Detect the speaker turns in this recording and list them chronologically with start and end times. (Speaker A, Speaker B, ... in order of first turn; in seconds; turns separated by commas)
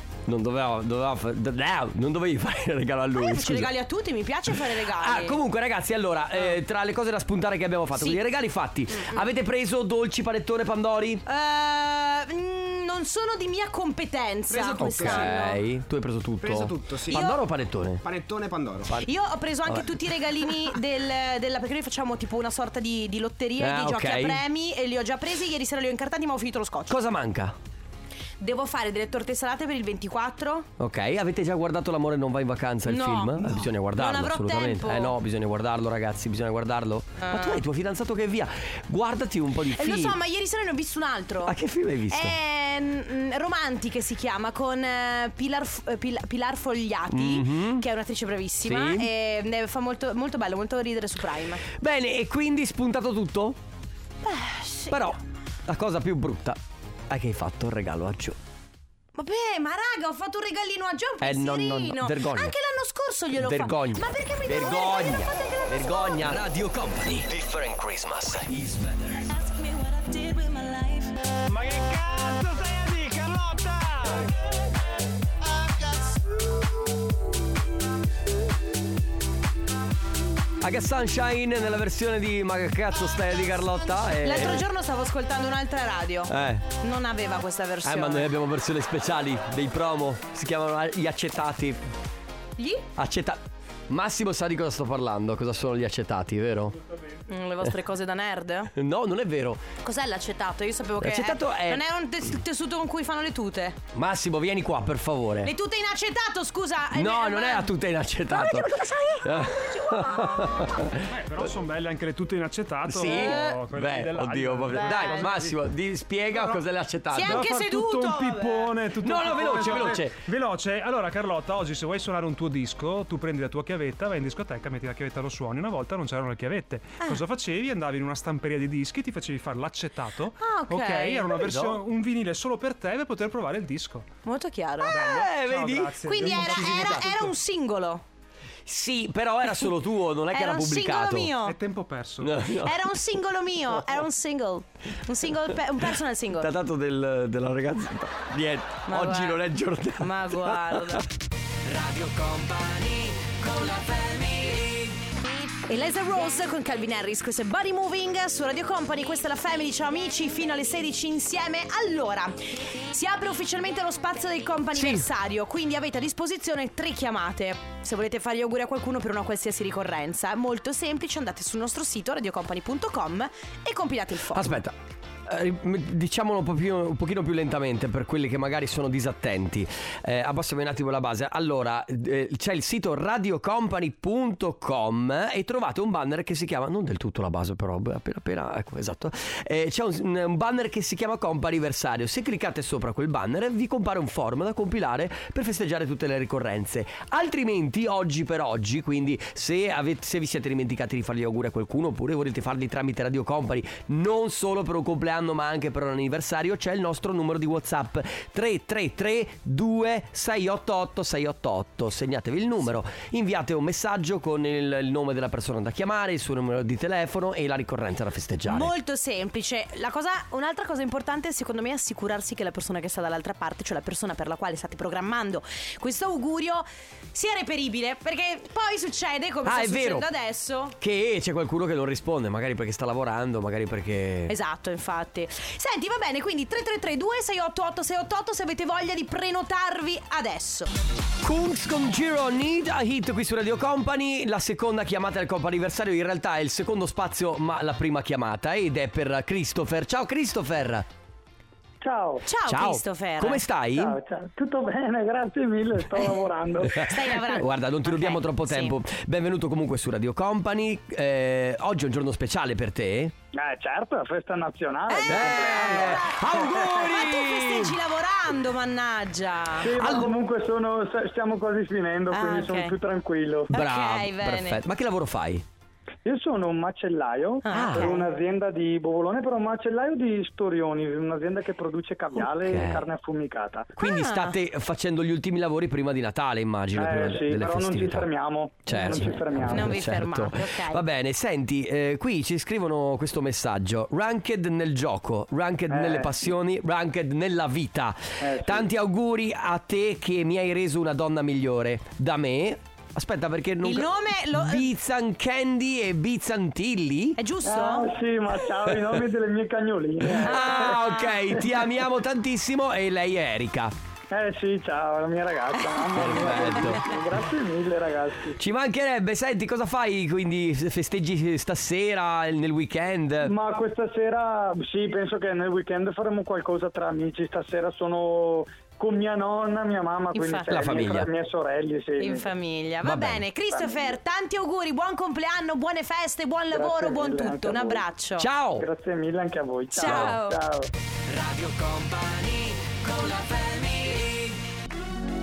Speaker A: 0.2-3.7, Speaker B: 3.1-5.4, Speaker A: 4.5-11.2, Speaker B: 7.9-8.2, Speaker B: 8.9-9.3, Speaker B: 11.2-15.6, Speaker C: 14.5-15.4, Speaker A: 14.8-18.0, Speaker C: 16.4-17.2, Speaker B: 17.1-17.4, Speaker C: 18.0-18.9, Speaker B: 19.0-27.0, Speaker A: 19.7-20.5, Speaker A: 23.6-24.4, Speaker A: 26.9-27.6, Speaker B: 28.4-30.7, Speaker A: 30.8-40.2, Speaker B: 32.9-35.1, Speaker B: 37.2-37.6, Speaker B: 39.8-41.5, Speaker A: 41.4-42.4, Speaker B: 42.1-51.6, Speaker A: 47.1-47.8, Speaker A: 48.6-49.1, Speaker A: 51.6-53.6, Speaker B: 54.2-55.1, Speaker A: 54.9-56.6, Speaker A: 57.1-58.4, Speaker B: 59.1-66.4, Speaker A: 61.2-62.5, Speaker A: 63.4-69.3, Speaker B: 69.3-71.1, Speaker A: 71.5-74.2, Speaker A: 80.6-84.6, Speaker B: 84.1-88.3, Speaker A: 86.3-86.7, Speaker A: 87.8-91.8, Speaker B: 92.6-92.9, Speaker A: 93.0-96.8, Speaker B: 97.3-98.7, Speaker A: 98.7-99.6, Speaker B: 99.8-103.8, Speaker A: 101.0-101.8, Speaker A: 103.9-105.5, Speaker B: 105.4-107.7, Speaker A: 106.9-111.5, Speaker B: 108.3-110.7, Speaker D: 111.1-115.5, Speaker A: 112.9-117.4, Speaker B: 113.0-113.6, Speaker B: 114.7-115.3, Speaker D: 116.3-116.6, Speaker B: 117.1-120.0, Speaker D: 117.2-134.1, Speaker A: 119.0-120.2, Speaker B: 130.4-131.5, Speaker A: 131.5-131.8, Speaker B: 134.2-135.0, Speaker A: 134.8-137.1, Speaker D: 134.8-137.3, Speaker B: 136.0-138.0, Speaker A: 138.7-141.3, Speaker B: 140.3-141.6, Speaker D: 141.4-142.4, Speaker A: 142.2-142.9, Speaker B: 142.6-146.5, Speaker A: 146.4-151.1, Speaker B: 148.9-149.4, Speaker B: 150.0-151.0, Speaker A: 151.7-154.9, Speaker B: 155.6-174.6, Speaker A: 164.7-165.0, Speaker A: 174.3-174.7, Speaker A: 175.3-218.7, Speaker B: 218.5-230.7, Speaker A: 229.4-230.1, Speaker A: 230.8-234.3, Speaker B: 234.3-240.7, Speaker A: 241.2-250.8, Speaker E: 251.8-252.2, Speaker B: 252.2-253.4, Speaker A: 252.5-254.0, Speaker E: 253.8-257.1, Speaker B: 256.7-258.7, Speaker A: 256.8-263.1, Speaker E: 263.3-266.1, Speaker B: 264.9-270.0, Speaker A: 265.1-267.7, Speaker E: 269.6-273.5, Speaker A: 269.8-270.1, Speaker B: 272.1-272.7, Speaker B: 273.5-274.6, Speaker A: 273.5-275.4, Speaker E: 276.0-283.7, Speaker B: 277.4-278.0, Speaker A: 277.5-278.0, Speaker A: 282.1-282.9, Speaker A: 283.8-288.1, Speaker B: 283.8-284.4, Speaker E: 286.7-289.8, Speaker A: 288.6-307.2, Speaker B: 288.7-290.8, Speaker E: 295.7-296.1, Speaker E: 298.2-298.7, Speaker B: 303.6-304.7, Speaker B: 307.2-307.9, Speaker E: 307.4-311.6, Speaker A: 308.7-309.0, Speaker A: 310.1-313.7, Speaker B: 310.2-311.1, Speaker E: 314.1-318.4, Speaker A: 315.9-316.9, Speaker A: 318.4-323.3, Speaker E: 323.2-332.3, Speaker B: 330.1-330.6, Speaker A: 330.5-331.1, Speaker B: 332.0-338.3, Speaker A: 332.8-333.2, Speaker E: 333.5-334.0, Speaker E: 336.5-337.8, Speaker A: 338.2-338.7, Speaker E: 338.6-340.7, Speaker B: 339.7-340.4, Speaker A: 339.8-340.2, Speaker A: 341.1-344.3